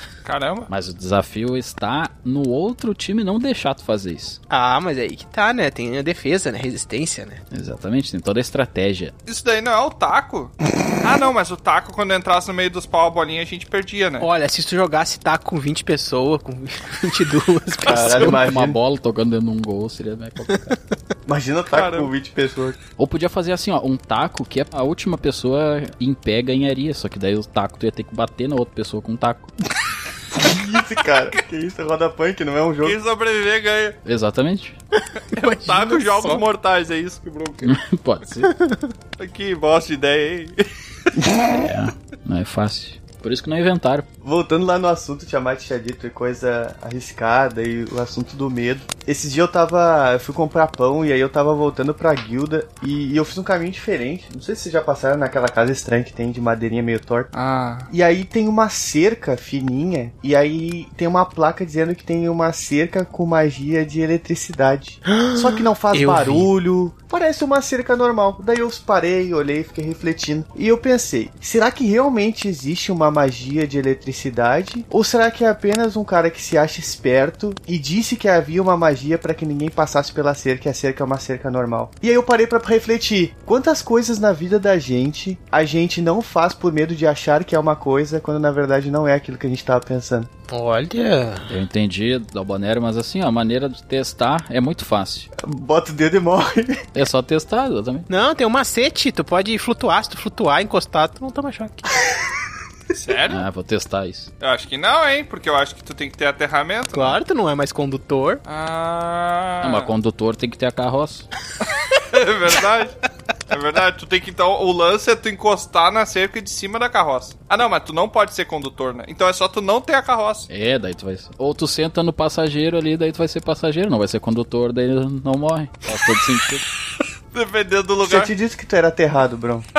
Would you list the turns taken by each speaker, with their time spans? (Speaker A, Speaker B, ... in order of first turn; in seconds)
Speaker A: 0.2-0.7, 9.3-14.3, 21.7-22.1, 32.8-34.0, 35.3-37.8, 39.2-41.1, 57.3-57.9, 103.0-103.5, 104.4-107.2, 108.5-109.9, 112.0-113.0, 113.5-120.5, 127.3-128.3
Speaker B: 0.7-4.4, 7.5-9.1, 17.9-20.8, 23.0-29.5, 34.0-34.8, 37.6-38.5, 41.5-44.1, 91.5-95.3, 96.9-98.1, 103.3-104.3, 109.6-111.3, 120.5-126.7
Speaker C: 4.5-7.4, 14.2-18.4, 35.0-36.4, 38.4-38.9, 65.0-66.5, 90.5-91.5, 98.1-101.9, 106.9-108.4
Speaker D: 17.9-18.8, 21.3-22.8, 30.3-33.0, 41.2-41.7, 44.2-57.3, 57.9-90.3, 95.4-96.9, 128.0-129.7